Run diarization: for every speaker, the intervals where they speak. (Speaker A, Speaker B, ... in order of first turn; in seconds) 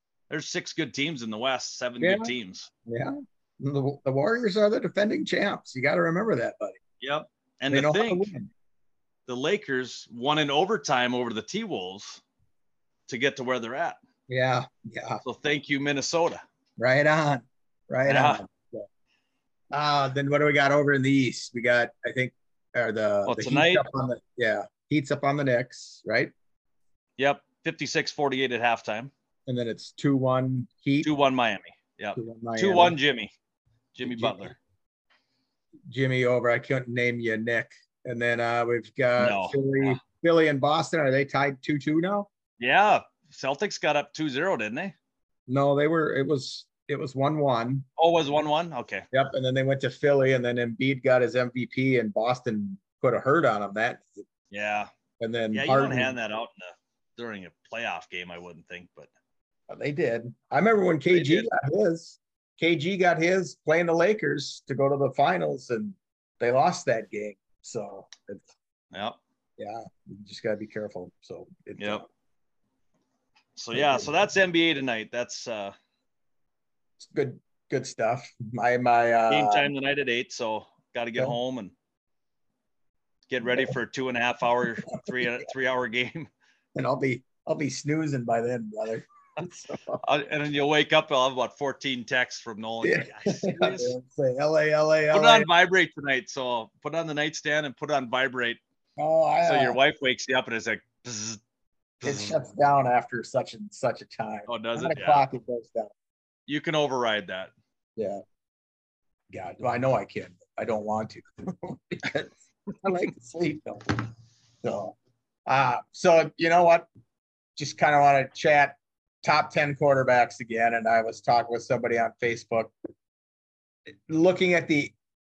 Speaker A: 0.3-2.7, 7.0-8.3, 9.3-12.2, 13.1-14.0, 15.2-16.4, 18.1-18.4, 23.2-23.8, 27.2-29.1, 31.0-33.3, 33.9-34.5, 39.2-40.0, 42.6-44.9, 48.0-49.0, 54.5-54.9, 55.5-59.1, 61.1-61.5, 68.9-69.2, 71.8-72.0, 73.5-75.7, 79.3-81.7, 83.3-86.3, 90.0-93.9, 95.1-98.6, 99.4-101.4, 102.0-102.4, 104.5-105.2, 106.5-107.5
Speaker B: 2.0-2.3, 2.9-6.8, 7.7-8.5, 14.3-15.2, 16.8-18.9, 19.7-26.3, 29.4-31.1, 32.1-33.0, 34.0-34.5, 35.9-42.3, 45.5-47.9, 49.1-54.2, 55.2-56.1, 59.7-68.5, 69.6-72.1, 73.7-74.1, 77.0-79.7, 86.7-90.0, 92.8-95.5, 99.0-99.8, 102.0-105.9, 109.3-114.0, 114.6-116.9, 117.5-122.7, 123.9-124.9